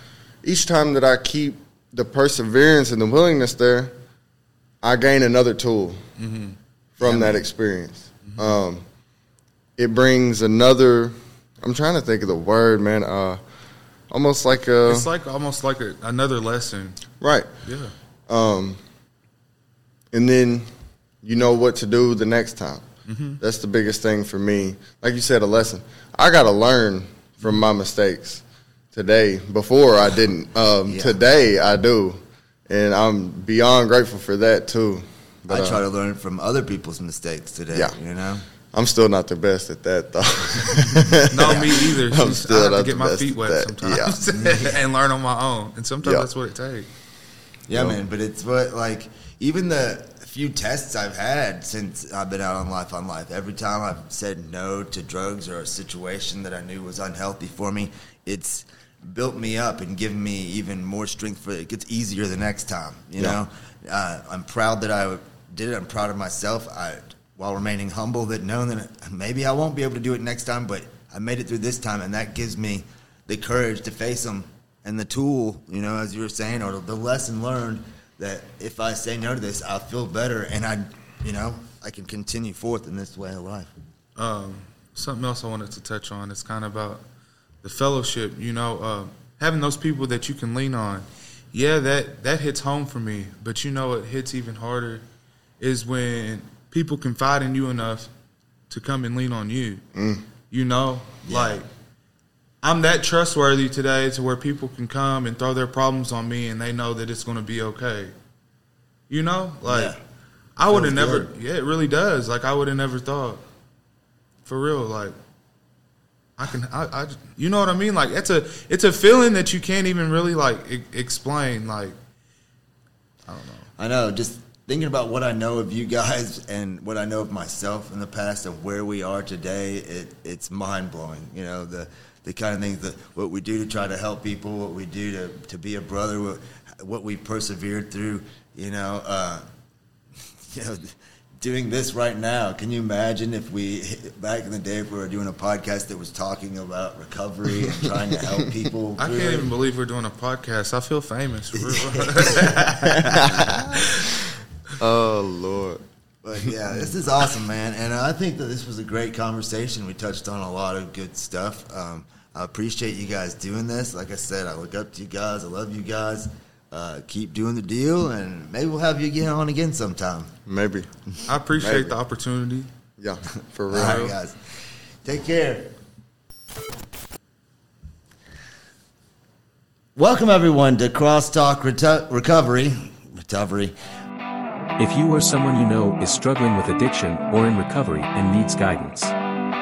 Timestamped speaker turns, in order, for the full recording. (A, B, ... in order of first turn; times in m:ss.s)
0:00.4-0:03.9 A
0:04.8-0:06.0 A
0:06.2-0:06.6 B
0:07.0-0:08.8 A
0:07.0-0:07.4 C
0:09.8-0:13.4 A
0:14.1-0:15.1 A
0:14.8-0:17.0 B
0:17.2-0:17.5 A
0:17.6-0:17.9 B
0:18.3-0:18.8 A
0:20.1-0:20.7 A
0:21.2-0:22.8 A
0:23.1-0:23.4 B
0:23.4-0:35.8 A
0:30.9-0:31.2 C
0:35.5-0:38.4 C
0:38.7-0:44.2 A
0:40.7-0:41.8 C
0:41.3-0:46.9 B
0:44.4-0:44.7 C
0:46.0-0:46.3 A
0:47.7-1:23.7 C
0:47.7-0:48.0 A
1:24.2-1:27.0 B
1:27.6-1:35.0 B
1:35.6-1:38.1 B
1:38.7-1:39.8 B
1:40.0-1:40.2 A
1:40.5-1:41.7 B
1:41.3-1:41.6 C
1:42.6-1:48.1 B
1:49.1-1:50.0 B
1:49.7-1:50.0 C
1:50.6-1:53.4 B
1:50.7-1:51.3 C
1:54.4-1:55.2 B
1:56.4-2:02.0 B
2:03.3-2:03.7 B
2:03.8-2:19.4 C
2:20.5-2:29.5 C
2:29.0-2:34.1 B
2:31.6-2:32.7 C
2:33.2-2:33.7 A
2:34.8-2:35.8 A
2:36.2-2:50.3 C
2:50.5-2:50.9 A
2:51.3-2:52.7 B
2:51.6-2:52.0 A
2:53.0-2:54.1 A
2:53.7-2:54.4 C
2:53.7-2:54.1 B
2:55.0-2:55.7 C
3:00.0-3:03.8 C
3:04.8-3:09.1 D